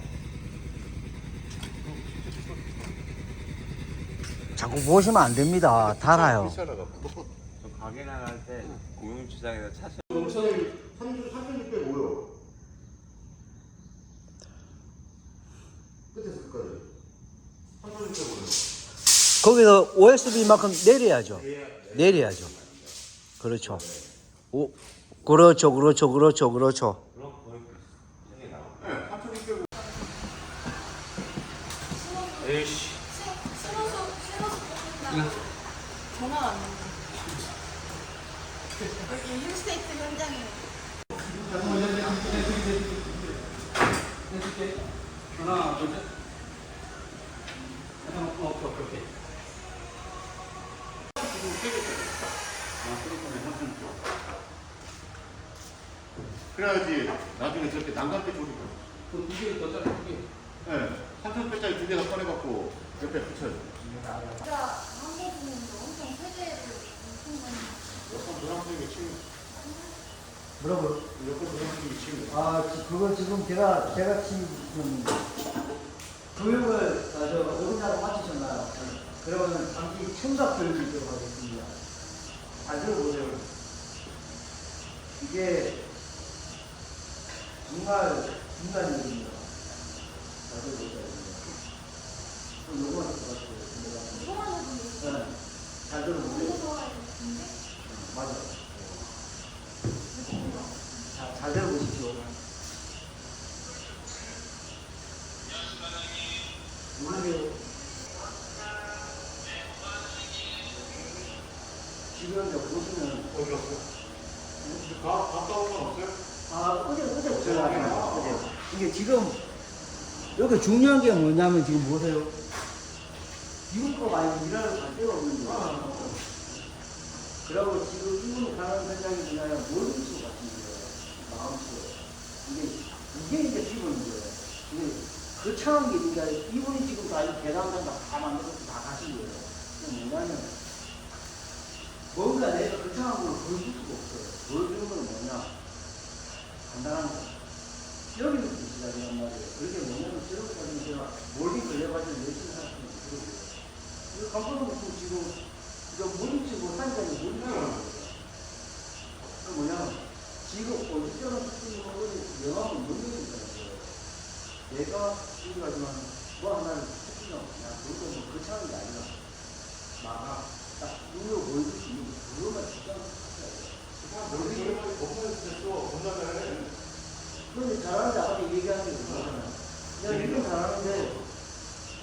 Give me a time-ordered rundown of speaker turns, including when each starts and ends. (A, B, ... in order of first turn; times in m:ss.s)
0:01.9-0:02.5 A
0:04.6-0:06.6 B
0:05.8-0:07.3 A
0:07.6-0:10.3 C
0:10.1-0:12.3 A
0:10.1-0:10.7 D
0:16.1-0:16.9 A
0:17.8-0:18.6 A
0:19.4-0:22.5 B
0:21.3-0:22.9 C
0:23.4-0:23.9 B
0:23.6-0:24.0 C
0:24.5-0:27.0 B
0:27.1-0:29.0 C
0:28.8-0:29.7 A
0:32.0-0:35.4 E
0:32.4-0:32.8 C
0:36.1-0:36.9 E
0:39.1-0:40.6 E
0:41.4-0:43.4 D
0:44.3-0:44.8 D
0:45.4-0:46.1 D
0:48.0-0:49.1 D
0:51.2-0:52.3 A
0:52.8-0:53.9 D
0:56.5-0:59.0 A
0:59.1-1:00.3 D
1:00.6-1:04.0 A
1:04.4-1:07.8 E
1:08.0-1:09.2 A
1:09.5-1:09.9 E
1:10.6-1:11.0 B
1:11.2-1:12.4 A
1:12.3-1:15.3 B
1:16.4-1:21.8 B
1:22.6-1:23.5 B
1:25.2-1:25.8 B
1:27.6-1:29.5 B
1:30.5-1:31.5 B
1:32.6-1:34.5 B
1:34.2-1:35.2 E
1:35.0-1:36.7 B
1:36.2-1:37.5 E
1:37.8-1:38.6 B
1:40.2-1:40.7 E
1:41.1-1:42.4 B
1:47.0-1:47.5 B
1:52.1-1:53.4 B
1:53.3-1:53.8 A
1:54.6-1:56.2 A
1:56.5-1:59.4 B
1:57.3-1:58.5 A
2:00.4-2:02.3 B
2:03.7-2:06.1 B
2:05.4-2:06.2 A
2:07.4-2:20.5 B
2:22.1-2:25.5 B
2:26.6-2:27.4 B
2:28.1-2:33.6 B
2:34.1-2:38.2 B
2:37.4-2:37.8 A
2:39.4-2:43.9 B
2:44.7-2:49.2 B
2:50.0-2:53.8 B
2:54.0-2:56.8 A
2:54.3-2:54.8 B
2:57.5-3:01.1 B
2:59.0-2:59.3 A
3:00.0-3:01.3 A